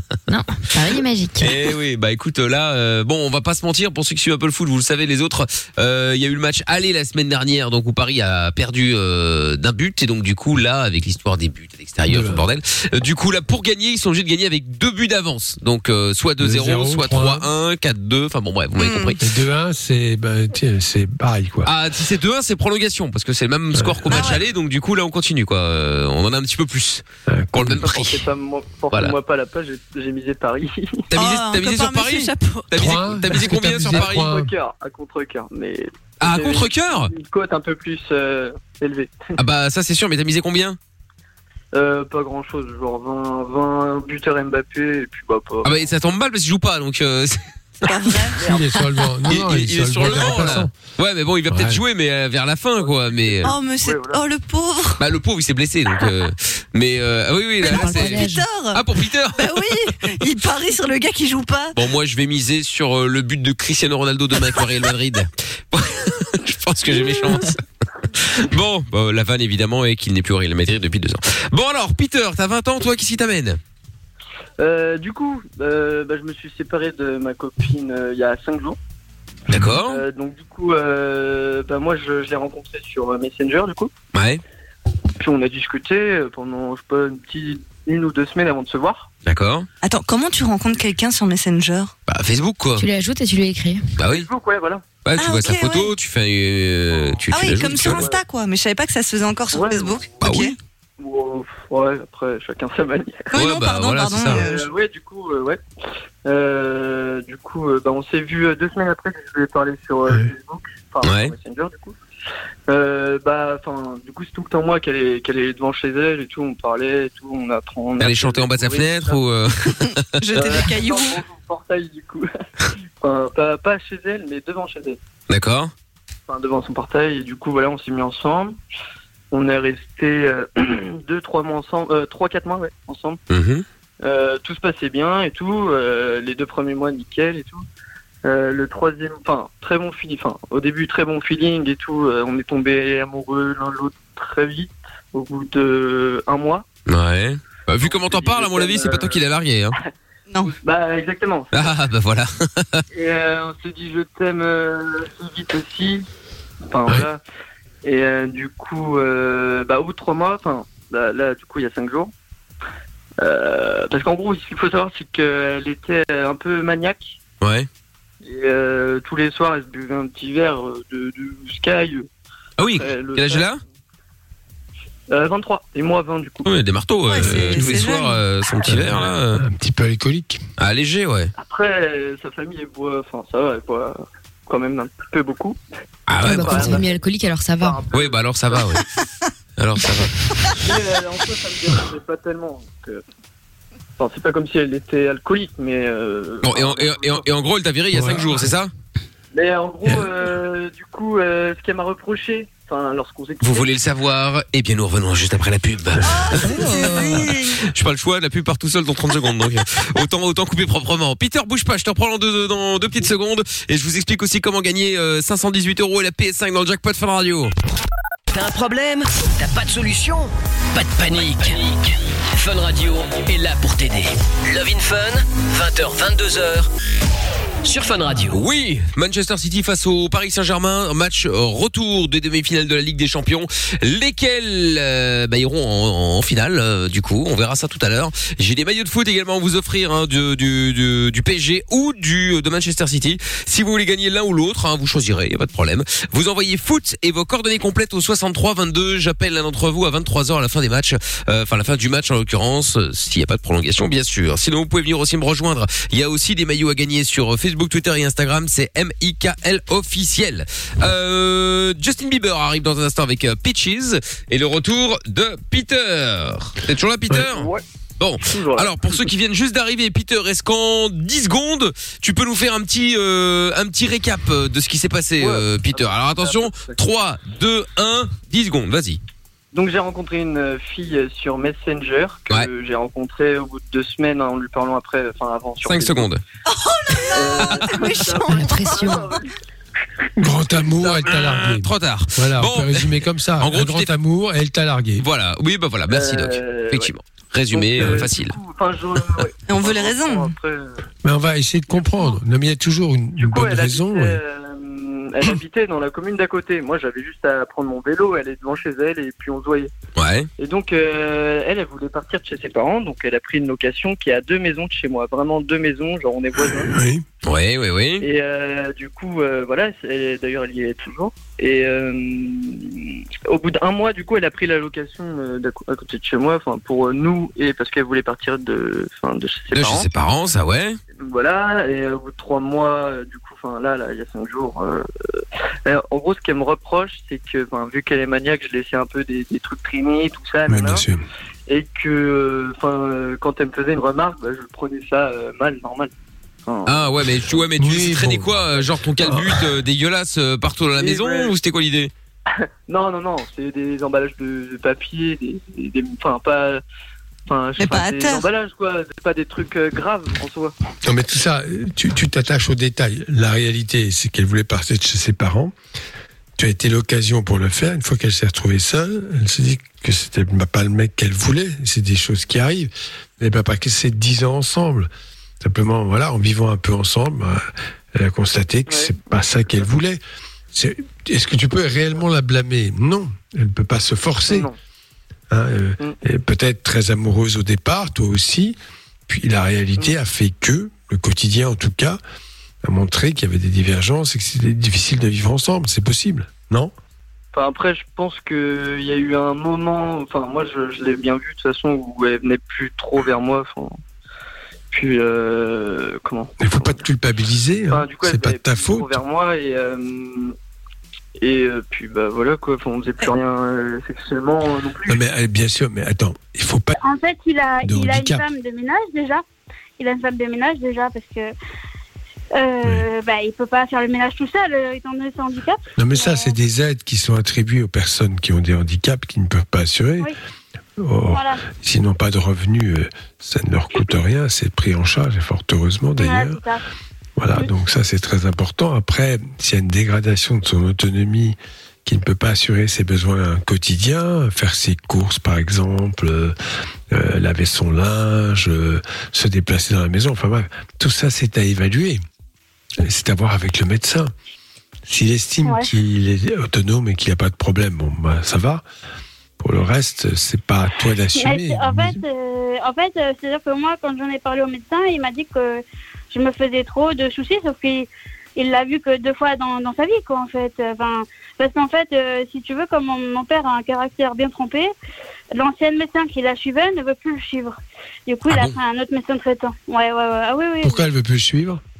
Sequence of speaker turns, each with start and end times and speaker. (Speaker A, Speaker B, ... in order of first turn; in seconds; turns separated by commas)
Speaker A: 0.3-1.6, Speaker B: 1.4-19.2, Speaker C: 12.1-12.4, Speaker C: 16.4-17.5, Speaker D: 18.8-19.2, Speaker C: 19.2-21.7, Speaker B: 21.6-28.2, Speaker C: 23.7-24.3, Speaker D: 24.1-24.4, Speaker C: 27.3-27.9, Speaker E: 27.6-31.1, Speaker B: 31.1-34.3, Speaker D: 31.1-32.8, Speaker C: 32.8-34.5, Speaker E: 33.7-39.3, Speaker B: 36.2-37.1, Speaker B: 39.4-40.8, Speaker E: 41.7-45.9, Speaker B: 45.6-48.2, Speaker D: 47.8-48.4, Speaker E: 48.4-48.8, Speaker C: 48.4-50.7, Speaker B: 49.3-53.5, Speaker C: 51.5-51.8, Speaker E: 52.8-54.2, Speaker D: 53.4-55.0, Speaker B: 55.0-59.6, Speaker D: 57.6-61.8, Speaker A: 57.6-58.4, Speaker B: 61.7-67.6, Speaker D: 66.9-67.5, Speaker B: 68.2-73.6, Speaker E: 74.6-78.8, Speaker B: 79.5-80.0, Speaker E: 79.5-83.9, Speaker B: 84.1-84.4, Speaker E: 85.2-89.1, Speaker B: 89.2-89.7, Speaker D: 89.8-91.9, Speaker B: 92.1-92.8, Speaker A: 92.8-93.8, Speaker B: 94.0-94.3, Speaker E: 94.0-94.8, Speaker B: 95.0-98.1, Speaker D: 95.2-95.9, Speaker E: 96.9-98.2, Speaker D: 97.3-100.5, Speaker E: 99.5-100.2, Speaker B: 100.2-100.5, Speaker E: 101.0-103.3, Speaker D: 103.3-104.7, Speaker B: 103.3-104.4, Speaker E: 104.3-105.6, Speaker E: 106.2-112.0, Speaker B: 111.0-111.3, Speaker E: 112.7-119.2, Speaker B: 118.0-120.0, Speaker D: 120.2-121.2, Speaker E: 120.3-122.3, Speaker E: 123.0-125.0, Speaker B: 125.3-125.7, Speaker E: 126.3-128.6, Speaker E: 129.3-133.2, Speaker B: 133.3-133.6, Speaker E: 134.0-137.6, Speaker E: 138.2-146.6, Speaker B: 146.9-149.8, Speaker E: 147.8-149.2, Speaker D: 150.3-150.5, Speaker E: 150.5-151.7, Speaker B: 151.5-152.8, Speaker E: 152.9-156.1, Speaker E: 156.7-157.2, Speaker E: 157.8-162.1, Speaker E: 163.2-167.2, Speaker B: 167.4-167.7, Speaker E: 168.2-172.1, Speaker B: 172.6-173.6, Speaker E: 172.7-173.5, Speaker E: 175.1-176.5, Speaker B: 176.4-179.4, Speaker D: 177.1-178.2, Speaker C: 178.7-180.4, Speaker B: 180.6-181.3, Speaker E: 181.4-185.6, Speaker B: 186.1-186.8, Speaker E: 186.2-188.8, Speaker A: 186.2-187.8, Speaker B: 187.9-188.8, Speaker B: 189.6-190.2, Speaker E: 190.6-193.0, Speaker E: 194.0-197.3, Speaker B: 196.4-198.7, Speaker C: 197.9-198.5, Speaker E: 199.3-203.7, Speaker B: 203.4-217.5, Speaker D: 206.1-207.6, Speaker A: 206.4-207.1, Speaker F: 218.3-226.7, Speaker F: 227.6-228.4, Speaker B: 228.3-279.0, Speaker E: 267.2-267.6, Speaker E: 268.2-269.0, Speaker E: 275.2-276.8, Speaker E: 279.5-286.1, Speaker B: 285.6-286.2, Speaker D: 286.5-289.2, Speaker E: 287.1-289.3, Speaker A: 288.3-289.1, Speaker C: 290.2-295.1, Speaker B: 290.8-293.9, Speaker B: 295.0-298.4, Speaker E: 295.9-296.9, Speaker E: 297.5-300.8, Speaker D: 299.5-300.3, Speaker C: 301.0-304.2, Speaker E: 303.1-309.7, Speaker B: 309.9-310.3, Speaker E: 310.4-316.7, Speaker C: 316.6-317.0, Speaker B: 317.2-318.1, Speaker E: 318.0-329.9, Speaker B: 329.5-330.8, Speaker E: 331.0-340.9, Speaker C: 340.5-341.0, Speaker E: 341.5-345.9, Speaker E: 346.5-347.3, Speaker B: 346.6-351.9, Speaker C: 347.6-349.5, Speaker E: 350.8-351.3, Speaker E: 352.3-356.6, Speaker E: 357.3-360.5, Speaker D: 357.6-358.3, Speaker C: 360.8-365.5, Speaker C: 366.4-374.9, Speaker C: 375.4-380.0, Speaker E: 378.7-379.0, Speaker C: 380.5-384.5, Speaker E: 384.3-384.6, Speaker C: 385.3-388.6, Speaker C: 389.1-392.0, Speaker C: 392.6-396.7, Speaker E: 397.3-403.8, Speaker E: 404.7-406.8, Speaker C: 406.4-409.0, Speaker E: 407.7-410.3, Speaker E: 411.2-415.0, Speaker C: 414.9-416.7, Speaker G: 416.8-419.2, Speaker C: 417.6-418.2, Speaker G: 419.8-421.3, Speaker G: 422.4-426.3, Speaker C: 425.8-430.1, Speaker C: 430.8-436.4, Speaker G: 431.1-431.4, Speaker G: 436.0-436.6, Speaker C: 437.2-446.3, Speaker C: 446.9-452.0, Speaker C: 452.8-454.1, Speaker C: 454.9-458.6, Speaker C: 459.4-462.0, Speaker G: 461.1-474.7, Speaker G: 475.3-480.8, Speaker B: 478.3-478.5, Speaker C: 480.6-481.6